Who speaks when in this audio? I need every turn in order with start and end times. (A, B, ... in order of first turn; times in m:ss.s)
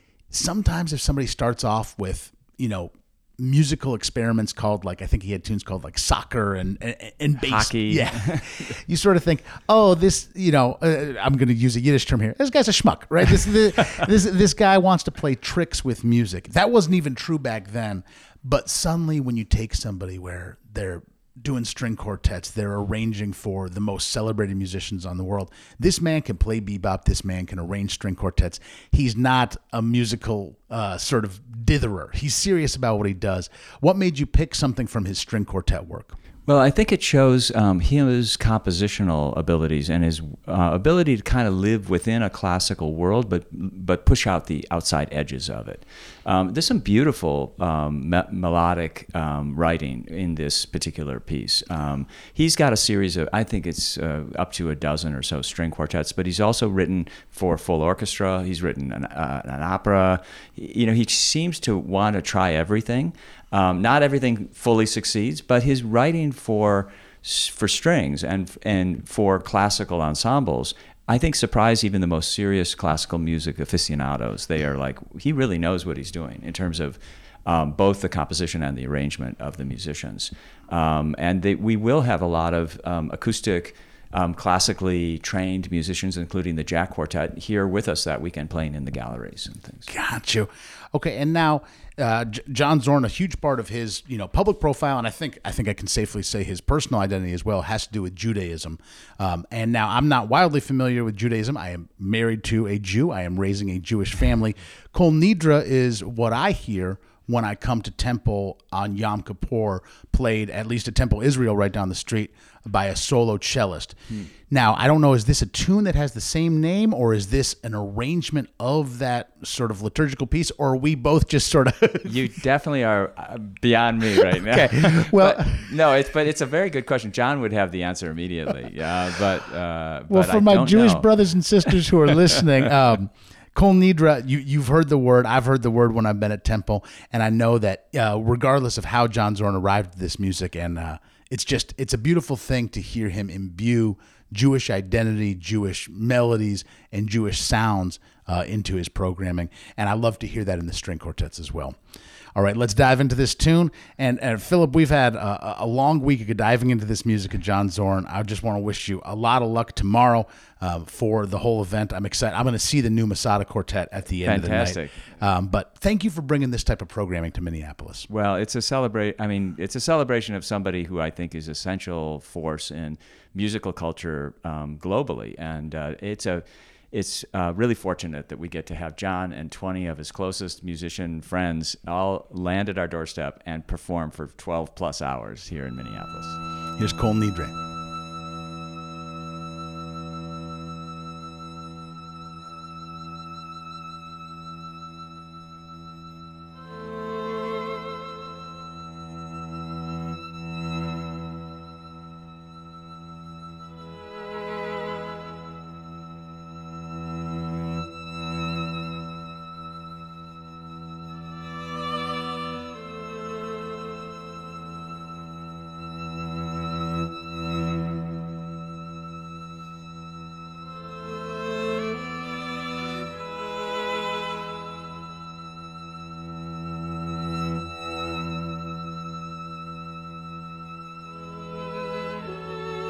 0:00.3-0:36.2 A
0:07.4-0:08.6 B
0:36.5-1:29.9 B
1:29.9-2:02.2 A
2:02.0-2:11.1 B
2:04.1-2:05.7 A
2:10.1-2:31.8 A
2:11.7-2:12.4 B
2:32.4-2:48.1 A
2:44.2-2:45.1 B
2:48.1-3:06.4 B
3:06.8-3:07.5 A